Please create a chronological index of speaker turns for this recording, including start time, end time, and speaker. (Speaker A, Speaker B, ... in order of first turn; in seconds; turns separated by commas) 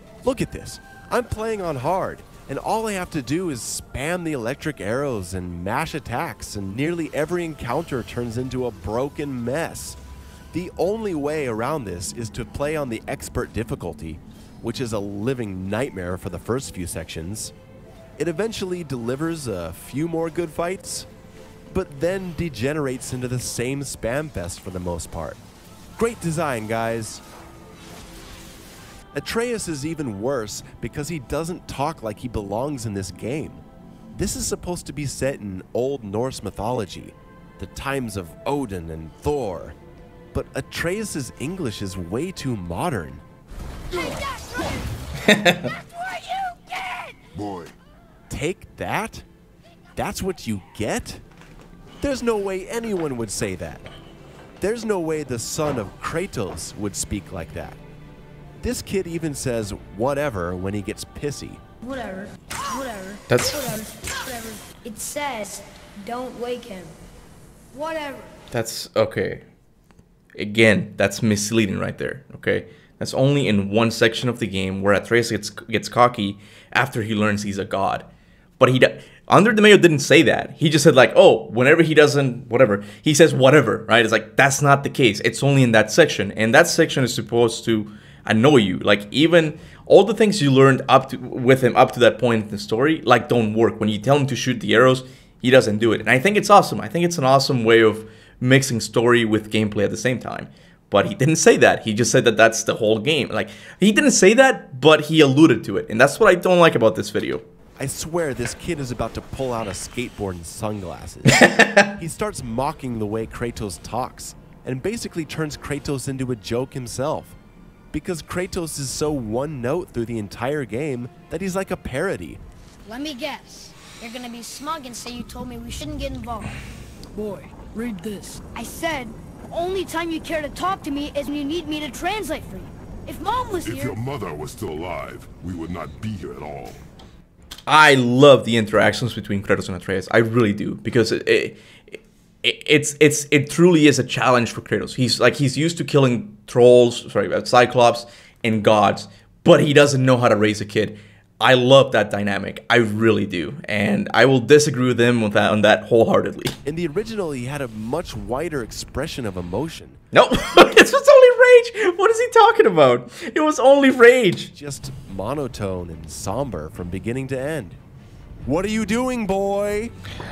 Speaker A: 0.2-10.0, Speaker A: 10.5-17.5, Speaker A: 18.2-21.1, Speaker A: 21.7-25.4, Speaker A: 26.0-27.2, Speaker A: 29.1-39.8, Speaker A: 40.3-43.2, Speaker B: 43.9-47.2, Speaker C: 47.4-47.7, Speaker A: 48.3-49.3, Speaker A: 50.0-51.2, Speaker A: 52.0-53.9, Speaker A: 54.6-57.8, Speaker A: 58.6-61.6, Speaker B: 61.8-67.0, Speaker D: 63.3-63.6, Speaker B: 67.7-68.3, Speaker D: 68.5-69.4, Speaker D: 70.4-78.1, Speaker D: 78.6-107.4, Speaker A: 107.8-117.4, Speaker D: 111.3-112.0, Speaker A: 117.9-122.4, Speaker B: 122.8-126.6, Speaker B: 127.1-134.0, Speaker C: 133.6-136.8, Speaker D: 137.7-156.6, Speaker A: 156.7-160.0, Speaker D: 160.1-164.5, Speaker A: 164.5-167.8, Speaker A: 168.4-169.9